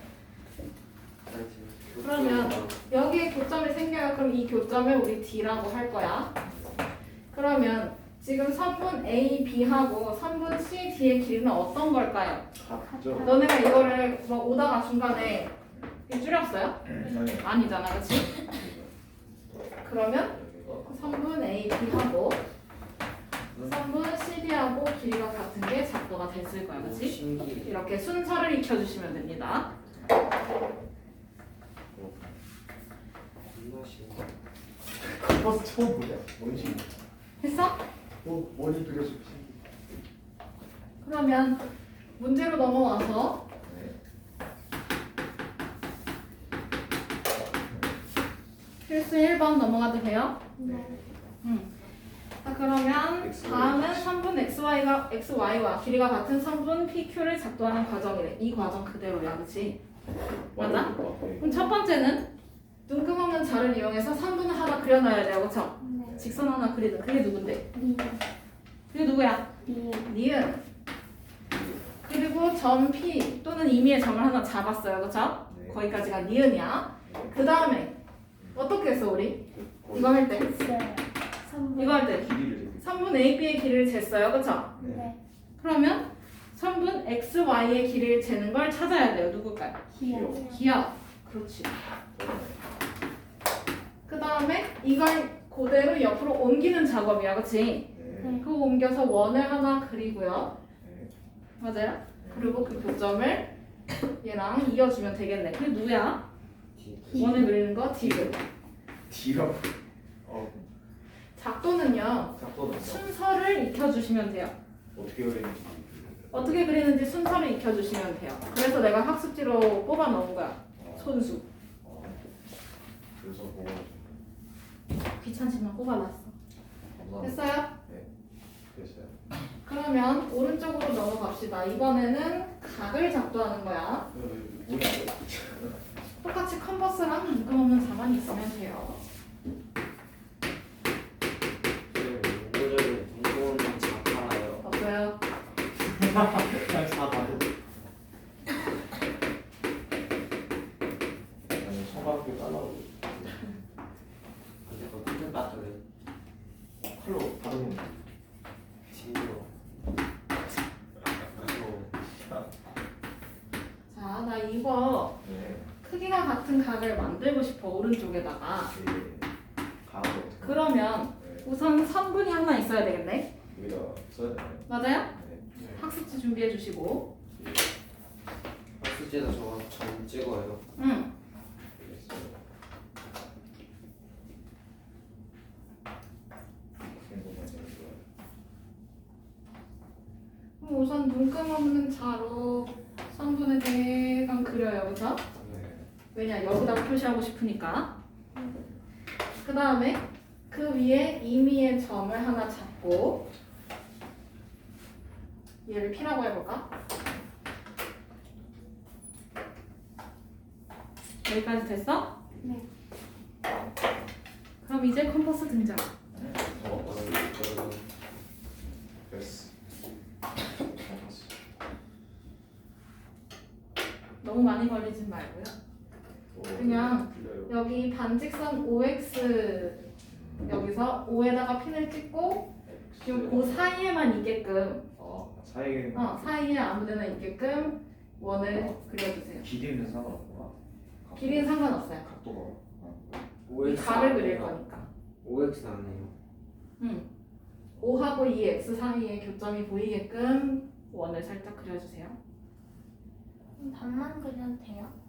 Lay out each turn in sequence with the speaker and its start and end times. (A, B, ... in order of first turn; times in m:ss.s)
0:01.2-0:02.8 A
0:02.0-0:06.3 B
0:06.4-0:06.9 C
0:07.3-0:12.5 B
0:12.5-0:13.5 C
0:12.8-0:13.5 D
0:13.2-0:15.5 B
0:15.7-0:16.0 C
0:16.1-0:18.4 B
0:16.8-0:17.7 C
0:18.3-0:18.9 C
0:19.8-0:22.4 B
0:20.3-0:21.3 C
0:23.5-0:23.8 C
0:23.6-0:29.7 B
0:26.7-0:27.8 A
0:29.9-0:30.2 C
0:31.9-0:32.4 C
0:33.5-0:34.3 A
0:34.9-0:36.9 C
0:37.4-0:37.8 B
0:38.2-0:39.6 C
0:41.0-0:41.6 B
0:42.2-0:43.4 B
0:43.6-0:44.0 C
0:48.8-0:50.4 B
0:50.6-0:50.9 D
0:50.6-0:51.1 C
0:51.4-0:51.7 B
0:52.4-0:59.8 B
0:53.2-0:54.1 C
1:00.3-1:01.5 C
1:00.5-1:02.3 B
1:01.4-1:01.7 D
1:02.9-1:07.6 B
1:05.8-1:06.2 D
1:06.0-1:06.4 C
1:07.7-1:08.2 D
1:08.9-1:10.6 B
1:09.6-1:10.1 D
1:11.5-1:12.0 C
1:12.0-1:17.9 B
1:15.5-1:15.8 C
1:17.0-1:17.4 C
1:18.4-1:18.7 C
1:18.5-1:20.5 B
1:19.5-1:20.5 C
1:20.4-1:22.2 D
1:21.8-1:24.7 B
1:22.1-1:23.0 C
1:24.8-1:25.1 C
1:24.8-1:25.2 D
1:25.6-1:31.7 B
1:29.9-1:30.6 D
1:30.0-1:30.7 C
1:32.1-1:32.8 C
1:34.0-1:40.5 B
1:37.9-1:38.4 C
1:38.2-1:38.5 D
1:40.8-1:41.1 C
1:41.6-1:43.5 B
1:42.2-1:42.8 C
1:44.2-1:46.2 B
1:46.7-1:47.4 A
1:47.1-1:47.5 D
1:47.1-1:48.4 B
1:49.1-1:50.7 C
1:51.4-1:54.6 B
1:52.3-1:53.0 C
1:54.9-1:56.7 C
1:56.3-2:01.4 B
2:00.8-2:01.2 C
2:01.8-2:02.2 C
2:03.2-2:04.2 C
2:05.2-2:06.3 B
2:07.0-2:08.1 C
2:07.2-2:07.7 B
2:08.7-2:09.2 C
2:09.6-2:14.1 B
2:14.1-2:15.8 C
2:16.2-2:19.0 B
2:21.9-2:24.6 A
2:24.6-2:25.2 B
2:25.8-2:27.5 C
2:31.5-2:33.4 C
2:34.6-2:35.8 A
2:36.9-2:38.1 C
2:38.9-2:39.5 A
2:41.3-2:41.9 A
2:42.1-2:42.5 C
2:43.9-2:45.2 B
2:45.2-2:45.7 C
2:45.8-2:48.7 B
2:48.7-2:49.3 C
2:49.8-2:51.5 C
2:50.4-2:53.3 B
2:53.5-2:55.5 C
2:54.7-2:55.1 B
2:55.5-2:55.8 A
2:55.7-2:57.1 B
2:57.3-2:57.7 C
2:58.8-3:00.6 A
3:00.8-3:01.1 B
3:01.8-3:02.4 C
3:06.8-3:08.0 C
3:10.6-3:15.2 B
3:15.4-3:15.9 C
3:16.1-3:17.9 B
3:19.4-3:23.2 B
3:25.6-3:26.6 B
3:31.2-3:32.1 B
3:32.4-3:32.6 D
3:34.6-3:35.9 B
3:36.1-3:37.2 C
3:36.6-3:37.8 A
3:39.1-3:39.5 C
3:40.6-3:41.4 C
3:44.2-3:45.5 B
3:46.3-3:47.6 C
3:46.5-3:49.9 B
3:50.1-3:50.5 C
3:50.4-3:54.8 B
3:52.6-3:53.7 C
3:55.0-3:56.4 C
3:55.9-3:59.5 B
3:59.4-4:03.3 C
4:01.2-4:02.0 B
4:03.5-4:04.6 A
4:03.6-4:04.9 B
4:05.2-4:06.1 A
4:06.8-4:07.1 B
4:07.8-4:12.2 B
4:13.6-4:14.9 D